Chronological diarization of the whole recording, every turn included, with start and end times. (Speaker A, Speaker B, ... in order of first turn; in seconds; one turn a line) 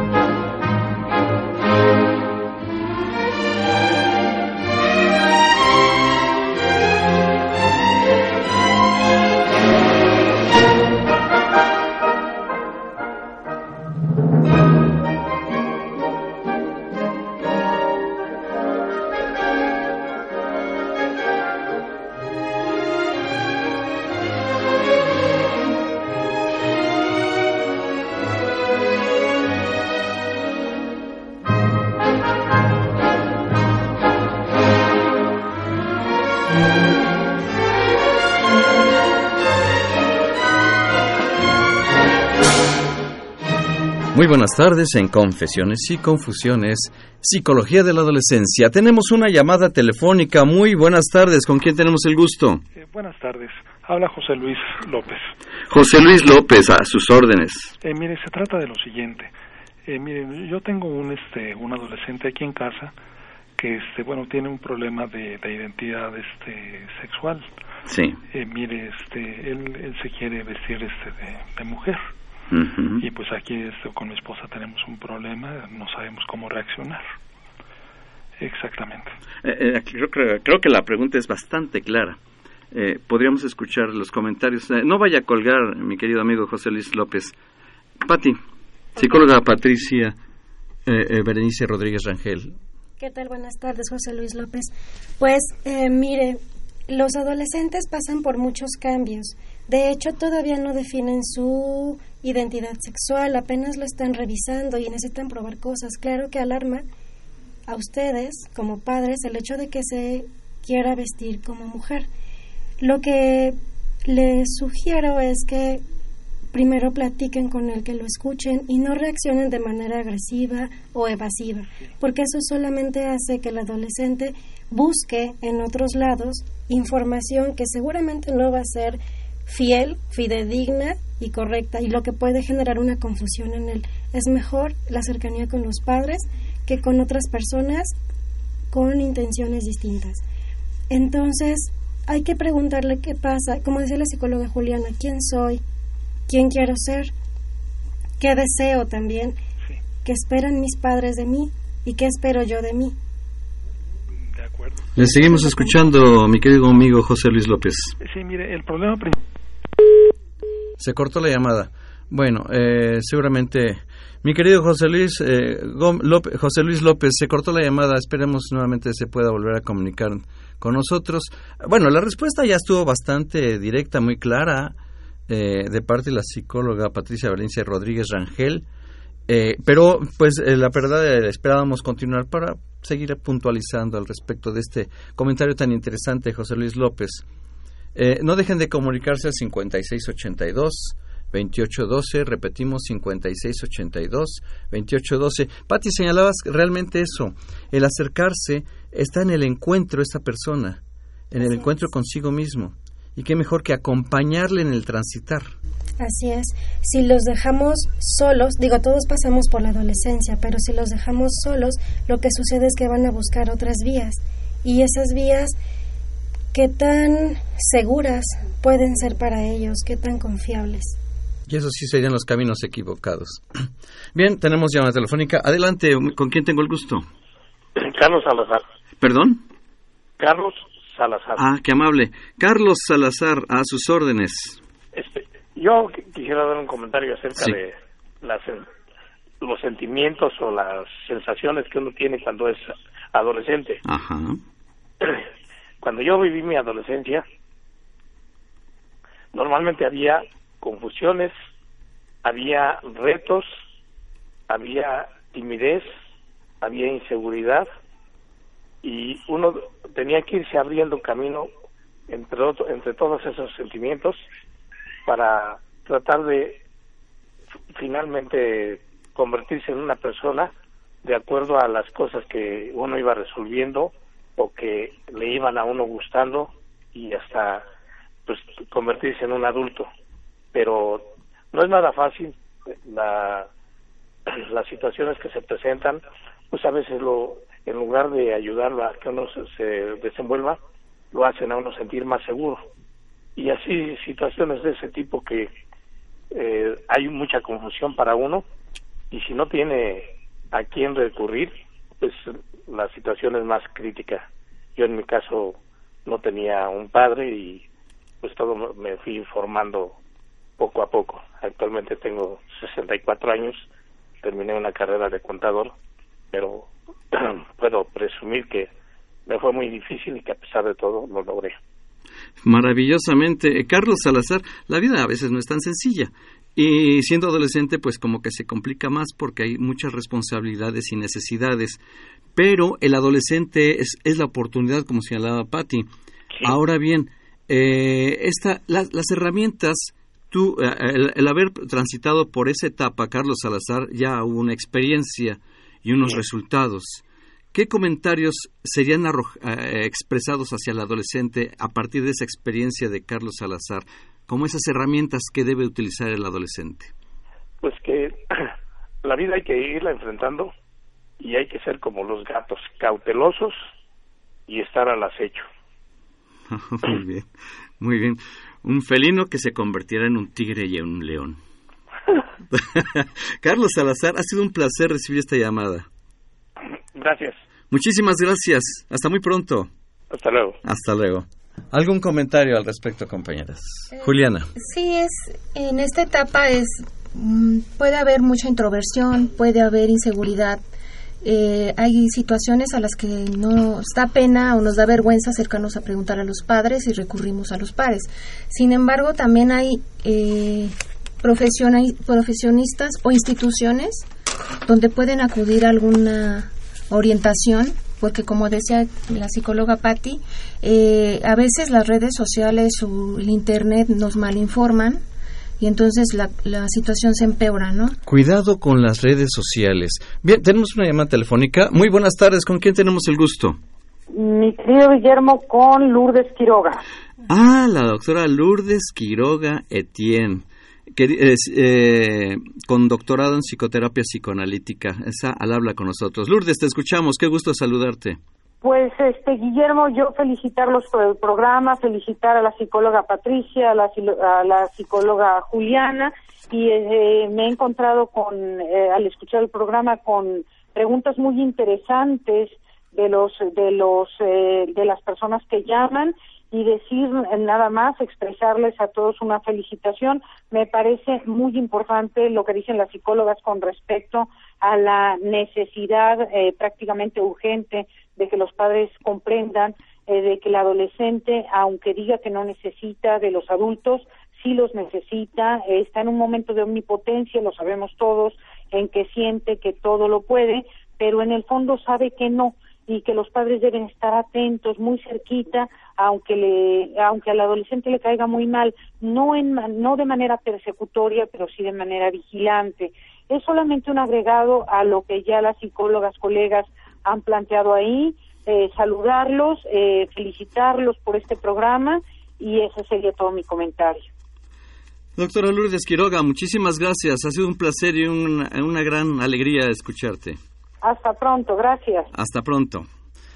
Speaker A: 44.1-52.6
Speaker B: 52.7-55.3
Speaker A: 55.7-57.7
Speaker B: 57.8-59.3
Speaker B: 59.9-62.9
Speaker B: 63.6-67.5
Speaker A: 67.9-68.2
Speaker B: 68.3-72.1
Speaker A: 72.5-73.0
Speaker B: 73.0-77.0
Speaker B: 78.4-79.1
Speaker A: 79.4-82.2
Speaker A: 82.7-87.3
Speaker A: 88.0-88.4
Speaker A: 89.0-90.2
Speaker A: 90.8-92.5
Speaker C: 93.0-106.8
Speaker C: 107.7-112.1
Speaker C: 112.8-115.8
Speaker C: 116.5-137.9
Speaker C: 138.7-140.2
Speaker C: 140.9-145.6
Speaker C: 146.3-147.1
Speaker C: 148.2-149.4
Speaker C: 150.0-152.9
Speaker B: 154.3-155.0
Speaker A: 154.9-157.9
Speaker C: 155.1-155.7
Speaker B: 158.0-159.2
Speaker A: 160.8-174.7
Speaker A: 175.3-178.6
Speaker A: 179.3-187.2
Speaker A: 187.9-205.5
Speaker C: 201.4-201.7
Speaker C: 206.0-215.6
Speaker C: 216.5-221.0
Speaker A: 221.5-227.0
Speaker D: 227.8-228.6
Speaker A: 229.0-229.4
Speaker D: 230.2-231.4
Speaker A: 231.4-234.6
Speaker D: 234.9-238.6
Speaker D: 239.4-243.8
Speaker A: 243.8-244.4
Speaker D: 245.8-247.2
Speaker D: 249.3-251.3
Speaker D: 252.2-253.5
Speaker D: 254.5-255.9
Speaker D: 256.6-257.6
Speaker D: 258.8-261.5
Speaker D: 262.1-264.2
Speaker D: 265.1-266.6
Speaker D: 267.7-270.5
Speaker D: 271.0-277.6
Speaker D: 278.3-279.9
Speaker D: 280.5-283.5
Speaker D: 284.3-290.6
Speaker D: 291.1-292.6
Speaker D: 293.4-295.5
Speaker D: 296.3-298.4
Speaker D: 299.1-307.6
Speaker D: 308.2-310.0
Speaker D: 310.6-313.6
Speaker D: 314.2-315.7
Speaker D: 316.3-318.7
Speaker D: 319.2-321.6
Speaker A: 322.4-331.8
Speaker A: 332.4-335.9
Speaker A: 336.4-356.9
Speaker D: 357.6-358.5
Speaker D: 359.0-360.5
Speaker D: 361.2-363.6
Speaker D: 364.5-365.4
Speaker A: 366.5-367.3
Speaker A: 367.8-371.4
Speaker A: 372.5-375.9
Speaker D: 376.9-377.4
Speaker A: 377.7-379.7
Speaker D: 380.1-380.6
Speaker A: 380.6-384.5
Speaker E: 383.9-390.6
Speaker E: 391.2-404.1
Speaker E: 404.6-415.0
Speaker E: 415.6-417.9
Speaker A: 418.1-423.6
Speaker F: 424.1-426.8
Speaker A: 427.3-438.2
Speaker F: 438.6-504.0
Speaker A: 505.2-510.4
Speaker F: 510.8-512.1
Speaker A: 512.1-512.9